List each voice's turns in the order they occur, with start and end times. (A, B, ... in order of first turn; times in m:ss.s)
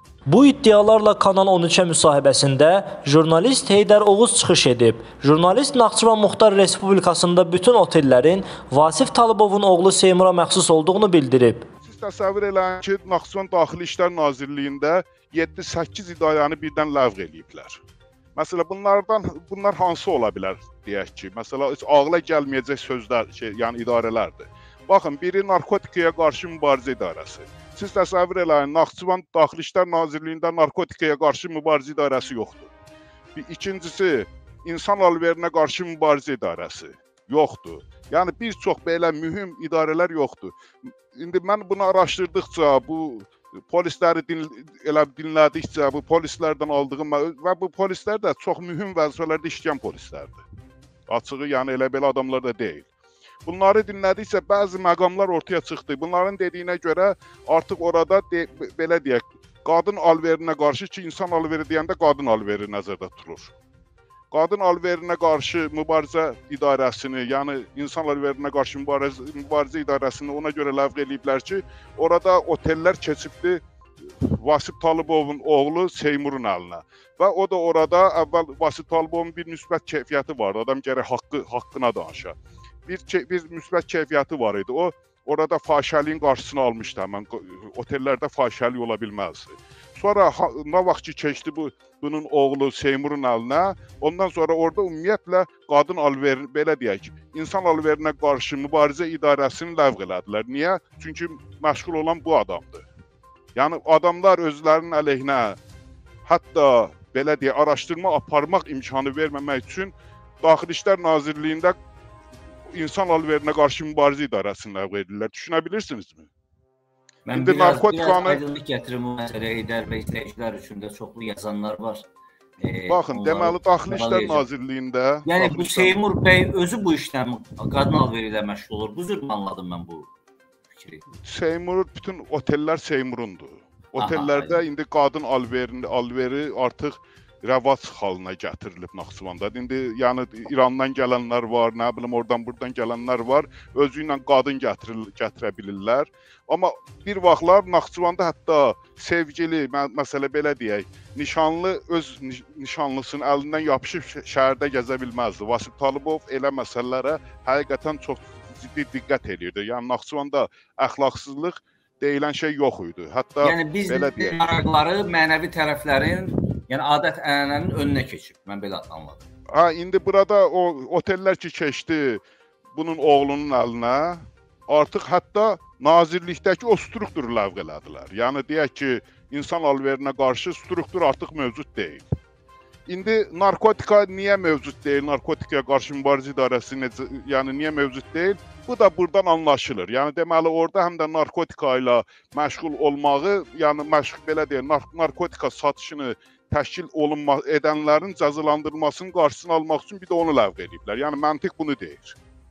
0:00.3-0:11.6 A
0:11.8-0:17.8 B
0:18.3-0:32.7 B
0:33.3-0:40.6 B
0:41.1-0:50.4 B
0:51.1-0:52.9 B
0:53.4-1:03.5 B
1:04.3-1:13.6 B
1:14.2-1:42.8 B
1:43.5-1:45.6 B
1:46.2-1:51.7 B
1:52.7-1:56.3 B
1:57.2-2:02.0 C
1:57.3-1:58.4 B
2:02.6-2:04.4 C
2:02.9-2:06.0 B
2:05.2-2:10.1 C
2:10.7-2:11.0 C
2:11.2-2:44.6 B
2:14.0-2:14.6 C
2:43.4-2:49.2 C
2:49.5-3:02.0 B
3:02.9-3:22.2 B